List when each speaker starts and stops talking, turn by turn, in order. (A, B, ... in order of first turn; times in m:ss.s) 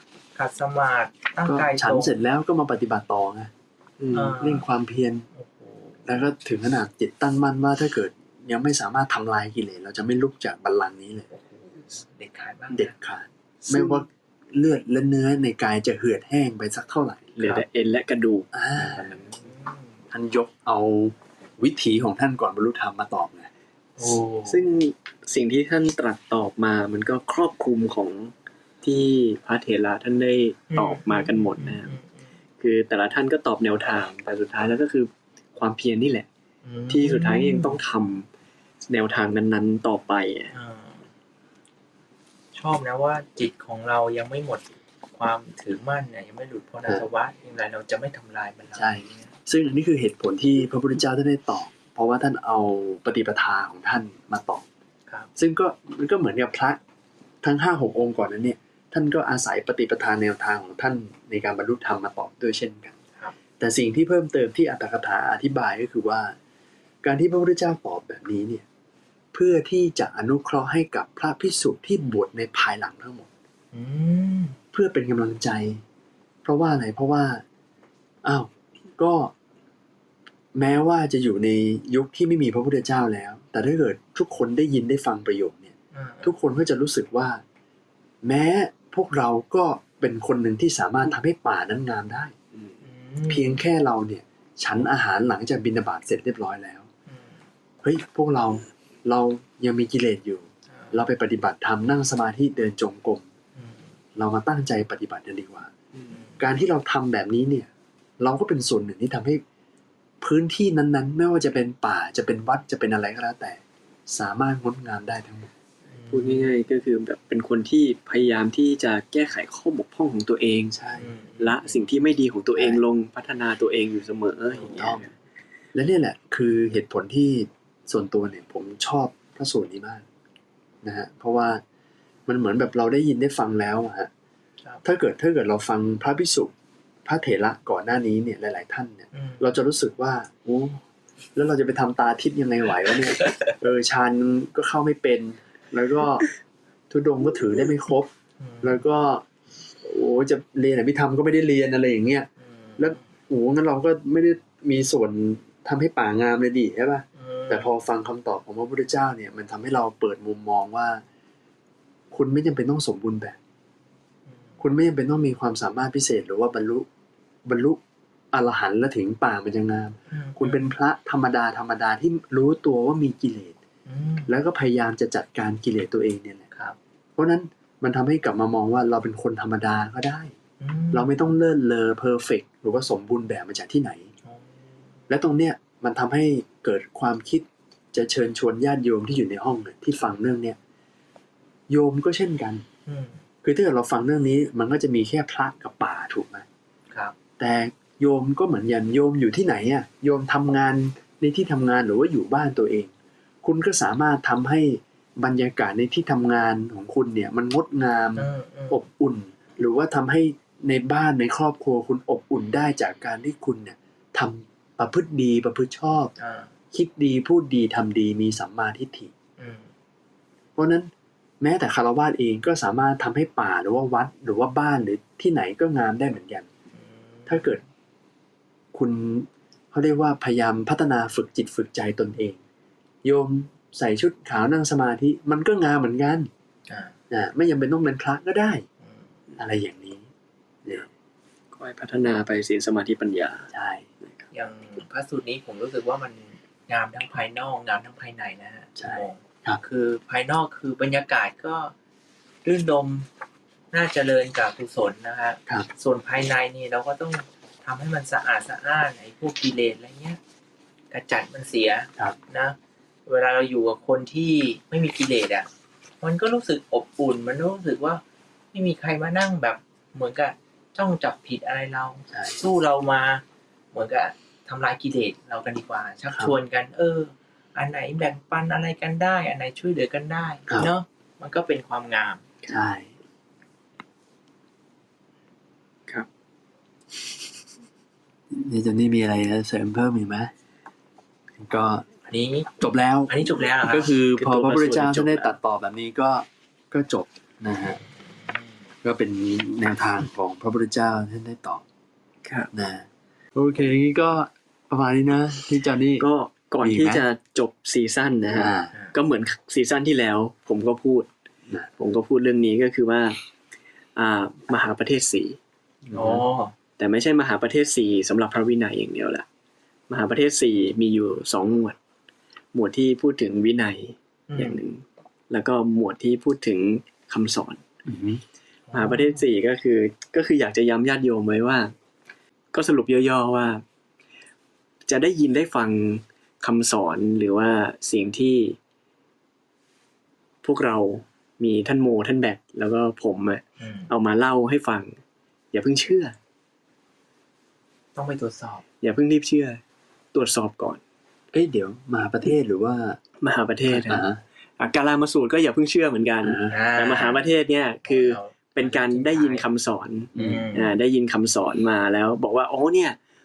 0:00.4-0:02.1 A
0:01.4-0:03.5 B
0:04.0-0:04.4 C
0:04.1-0:04.6 A
0:04.4-0:05.3 B
0:05.3-0:06.0 A
0:06.0-0:11.3 B
0:11.3-0:12.9 A
0:12.7-0:17.6 B
0:13.7-0:14.0 C
0:17.4-0:19.3 C
0:18.5-0:19.1 B
0:19.3-0:19.8 A
0:20.1-0:23.5 B
0:24.0-0:24.7 A
0:24.4-0:31.9 C
0:30.7-0:32.3 A
0:32.6-0:36.3 C
0:36.6-0:37.8 A
0:36.9-0:38.3 C
0:38.8-0:40.5 C
0:40.5-0:41.0 A
0:42.5-0:49.3 A
0:48.7-0:54.6 B
0:55.4-0:56.8 B
0:57.4-1:03.0 B
1:03.6-1:06.3 B
1:07.0-1:08.6 B
1:09.3-1:13.3 B
1:13.7-1:14.6 A
1:14.7-1:15.8 B
1:16.4-1:17.4 B
1:18.2-1:19.3 B
1:20.5-1:27.4 B
1:25.9-1:26.3 A
1:28.2-1:32.3 B
1:32.8-1:33.6 A
1:33.3-1:36.8 B
1:37.8-1:43.2 B
1:43.6-1:43.9 A
1:44.2-1:45.7 B
1:46.1-1:46.4 A
1:46.4-1:47.7 B
1:48.2-1:49.4 B
1:50.2-1:55.5 B
1:55.9-1:56.5 A
1:56.1-2:00.8 C
2:00.7-2:01.1 B
2:01.0-2:01.6 A
2:01.4-2:05.1 C
2:02.6-2:02.8 B
2:04.7-2:05.0 B
2:05.7-2:10.0 B
2:10.8-2:11.6 B
2:12.3-2:14.1 B
2:14.8-2:16.5 B
2:17.0-2:20.8 B
2:19.1-2:19.4 A
2:21.3-2:26.3 B
2:23.2-2:23.5 A
2:26.9-2:28.1 B
2:28.4-2:28.8 A
2:28.6-2:29.2 B
2:29.8-2:41.0 B
2:32.5-2:33.0 A
2:37.2-2:37.7 A
2:42.1-2:43.4 B
2:44.6-2:46.9 B
2:47.4-2:47.8 B
2:48.3-2:53.6 B
2:50.1-2:50.7 A
2:53.9-2:54.3 A
2:54.3-2:56.4 B
2:57.2-3:00.3 B
3:00.6-3:01.3 A
3:00.9-3:04.0 B
3:05.1-3:10.6 B
3:11.7-3:12.6 B
3:12.9-3:13.2 A
3:13.4-3:16.4 B
3:17.4-3:22.9 B
3:23.4-3:36.1 B
3:28.2-3:28.8 A
3:36.2-3:36.5 A
3:36.7-3:39.1 B
3:39.4-3:39.7 A
3:40.6-3:40.9 B
3:41.4-3:46.5 B
3:46.7-3:47.6 A
3:47.3-3:47.6 B
3:48.7-3:52.4 B
3:53.0-3:56.3 B
3:56.7-3:56.9 A
3:57.1-3:58.6 B
3:59.4-4:00.1 B
4:01.5-4:03.5 C
4:03.5-4:03.9 B
4:04.3-4:11.7 A
4:08.8-4:09.6 B
4:12.4-4:13.1 A
4:13.7-4:20.2 A
4:20.9-4:25.5 A
4:26.0-4:28.0 A
4:28.5-4:42.2 A
4:32.1-4:32.4 B
4:36.1-4:36.4 B
4:42.5-4:42.9 B
4:48.3-4:50.3 B
4:51.4-4:51.8 B
4:52.1-4:52.6 A
4:52.6-4:57.8 B
4:53.1-4:53.9 A
4:54.1-4:55.3 C
4:58.8-5:01.6 B
5:02.2-5:02.5 C
5:02.5-5:06.1 B
5:06.0-5:11.1 C
5:06.6-5:07.0 B
5:08.3-5:08.7 B
5:11.8-5:13.2 C
5:14.0-5:15.4 C
5:15.9-5:16.2 B
5:15.9-5:16.5 A
5:16.8-5:19.2 C
5:19.9-5:21.8 C
5:22.5-5:27.6 C
5:24.3-5:24.6 A
5:27.8-5:28.2 B
5:28.7-5:29.2 A
5:28.7-5:31.7 C
5:32.5-5:33.6 C
5:34.9-5:38.6 C
5:40.4-5:45.0 C
5:43.6-5:43.9 A
5:45.5-5:46.1 C
5:47.9-5:48.6 A
5:48.8-5:49.6 C
5:50.1-5:50.8 C
5:51.3-5:53.0 B
5:53.2-5:54.0 C
5:53.7-5:54.2 B
5:54.6-6:03.0 C
5:56.2-5:56.5 B
5:56.5-5:57.3 A
5:57.8-5:59.4 A
6:00.1-6:00.5 B
6:00.2-6:00.7 A